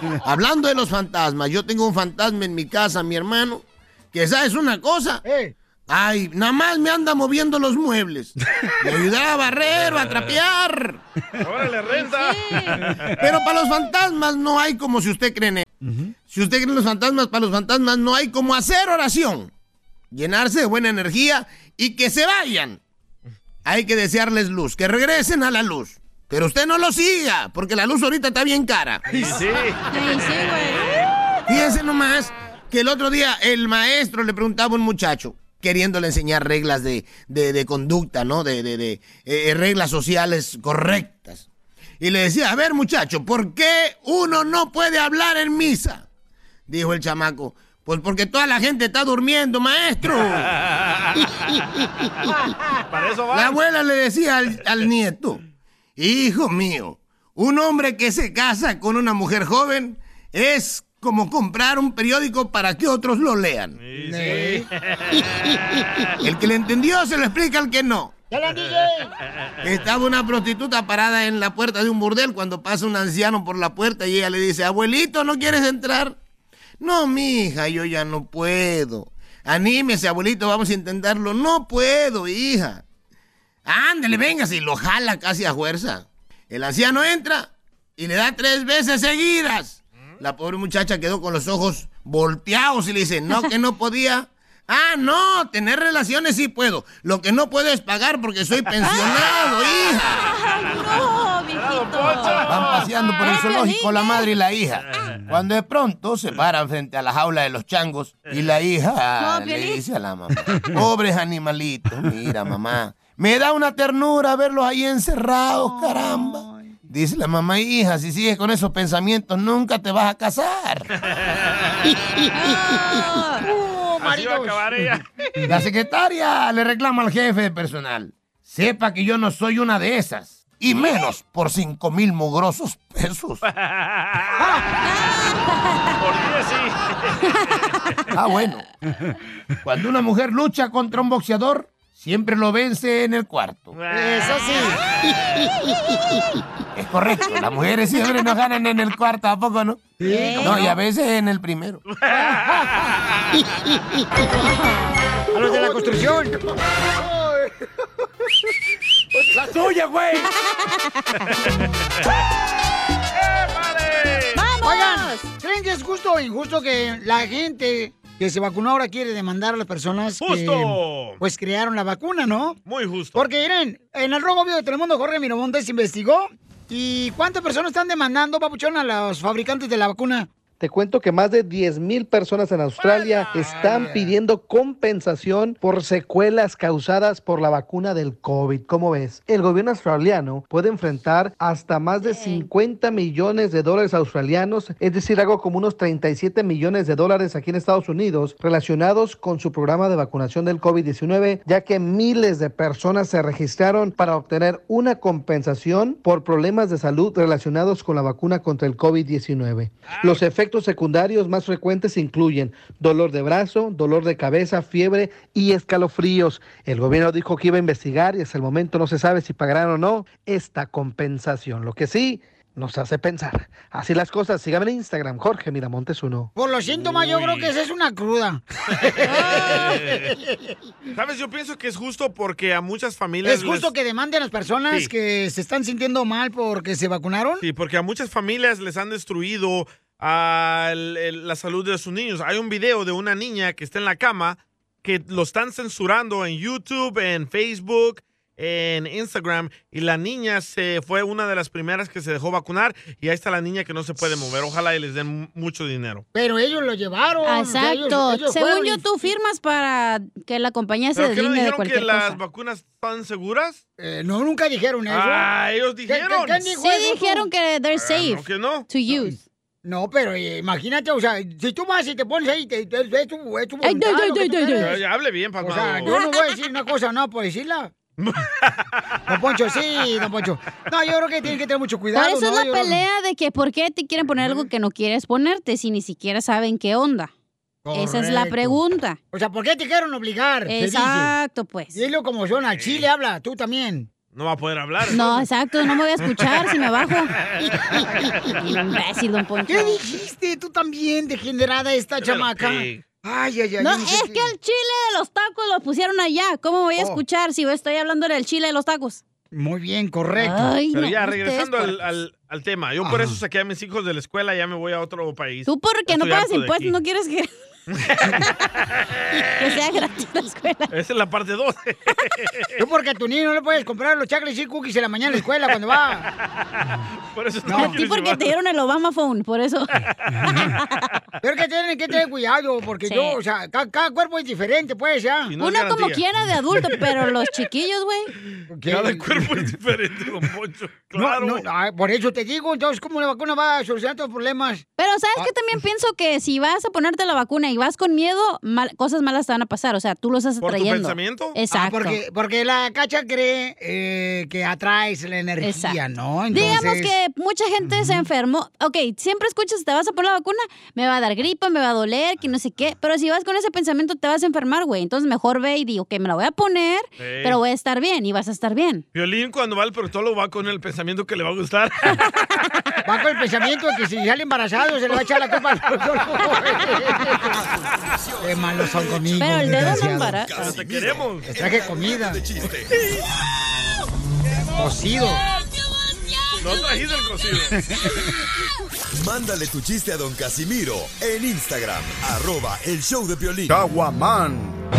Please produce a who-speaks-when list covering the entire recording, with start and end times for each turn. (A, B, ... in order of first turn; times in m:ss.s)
0:00.2-0:05.2 A
0:05.2-0:05.5 B
0:05.9-0:11.0 A
0:11.4-0:13.2 C
0:11.9-0:12.8 D
0:13.2-0:15.7 A
0:16.3-0:19.5 A
0:20.1-0:22.8 A
0:23.6-0:29.0 A
0:29.1-0:29.8 C
0:29.9-0:31.0 D
0:31.5-0:41.5 A
0:42.0-0:46.1 A
0:46.7-0:50.5 A
0:52.9-0:53.6 C
0:53.3-0:55.4 A
0:56.0-1:03.8 A
1:03.8-1:06.1 C
1:04.0-1:04.7 B
1:06.2-1:08.1 A
1:08.3-1:09.1 B
1:09.6-1:16.2 A
1:16.8-1:22.8 A
1:23.7-1:40.3 A
1:38.8-1:39.2 D
1:39.9-1:44.3 D
1:40.7-1:43.1 C
1:42.5-2:00.9 A
1:49.2-1:49.8 D
1:55.6-1:56.8 B
2:01.0-2:01.9 C
2:02.3-2:03.4 D
2:03.4-2:04.8 B
2:04.0-2:05.4 C
2:05.5-2:13.4 A
2:13.5-2:14.4 C
2:14.9-2:15.9 D
2:16.0-2:17.8 C
2:18.1-2:18.6 A
2:19.6-2:23.8 A
2:23.7-2:25.5 C
2:23.9-2:24.8 B
2:26.8-2:31.8 A
2:30.0-2:30.7 B
2:30.0-2:30.8 D
2:31.9-2:33.5 C
2:32.1-2:32.4 B
2:34.3-2:34.9 D
2:35.3-2:36.4 B
2:40.2-2:40.8 D
2:43.2-2:44.4 C
2:44.4-2:45.3 D
2:44.6-2:52.6 B
2:50.2-2:51.2 C
2:52.7-2:53.2 C
2:53.2-3:00.3 B
3:00.6-3:46.3 E
3:02.8-3:03.8 C
3:03.3-3:04.1 B
3:12.0-3:12.5 D
3:29.9-3:30.2 C
3:46.4-3:50.5 B
3:46.8-3:47.5 C
3:49.0-3:49.7 D
3:49.2-3:50.1 C
3:50.9-3:53.7 C
3:53.2-3:57.4 B
3:57.4-4:16.0 C
4:16.1-4:19.1 B
4:17.2-4:22.2 D
4:21.0-4:23.6 C
4:23.8-4:25.3 B
4:24.9-4:26.5 C
4:25.9-4:27.3 B
4:26.6-4:29.2 D
4:27.7-4:28.7 C
4:28.9-4:34.8 B
4:33.6-4:34.8 D
4:34.6-4:36.0 C
4:35.4-4:37.7 B
4:35.9-4:36.4 D
4:38.0-4:38.8 C
4:39.1-4:42.8 B
4:41.9-4:47.1 D
4:44.2-4:44.5 C
4:47.6-4:48.6 B
4:47.7-4:49.0 D
4:49.1-4:51.1 B
4:50.5-4:51.8 D
4:51.7-4:53.9 B
4:52.5-4:52.9 C
4:54.1-4:55.3 C
4:54.9-4:57.1 D
4:56.0-4:57.5 C
4:57.4-4:58.2 B
4:58.4-4:59.8 D
4:59.5-5:04.3 B
5:02.0-5:02.8 C
5:03.6-5:09.0 D
5:06.8-5:07.0 B
5:09.3-5:10.5 B
5:10.2-5:11.8 D
5:10.7-5:16.8 C
5:12.8-5:13.2 B
5:15.5-5:17.3 D
5:17.7-5:19.2 C
5:18.0-5:18.4 D
5:19.4-5:20.7 D
5:20.7-5:22.6 C
5:22.6-5:26.1 B
5:27.1-5:28.3 C
5:27.5-5:27.8 B
5:27.5-5:30.7 D
5:31.2-5:35.3 B
5:32.8-5:33.2 D
5:35.3-5:36.0 C
5:35.4-5:38.1 D
5:38.4-5:41.4 C
5:38.5-5:39.4 B
5:41.0-5:45.3 B
5:44.8-5:52.0 D
5:50.4-5:51.4 C
5:51.5-5:56.9 B
5:55.4-5:55.8 D
5:56.3-6:08.8 D
6:07.0-6:07.4 C
6:08.9-6:12.0 C
6:12.8-6:17.5 B
6:17.9-6:22.9 F
6:18.2-6:20.2 B
6:19.2-6:20.5 D
6:20.4-6:21.3 C
6:21.2-6:22.2 B
6:24.6-6:25.2 B
6:26.4-6:27.6 C
6:27.6-6:28.1 B
6:28.9-6:33.7 F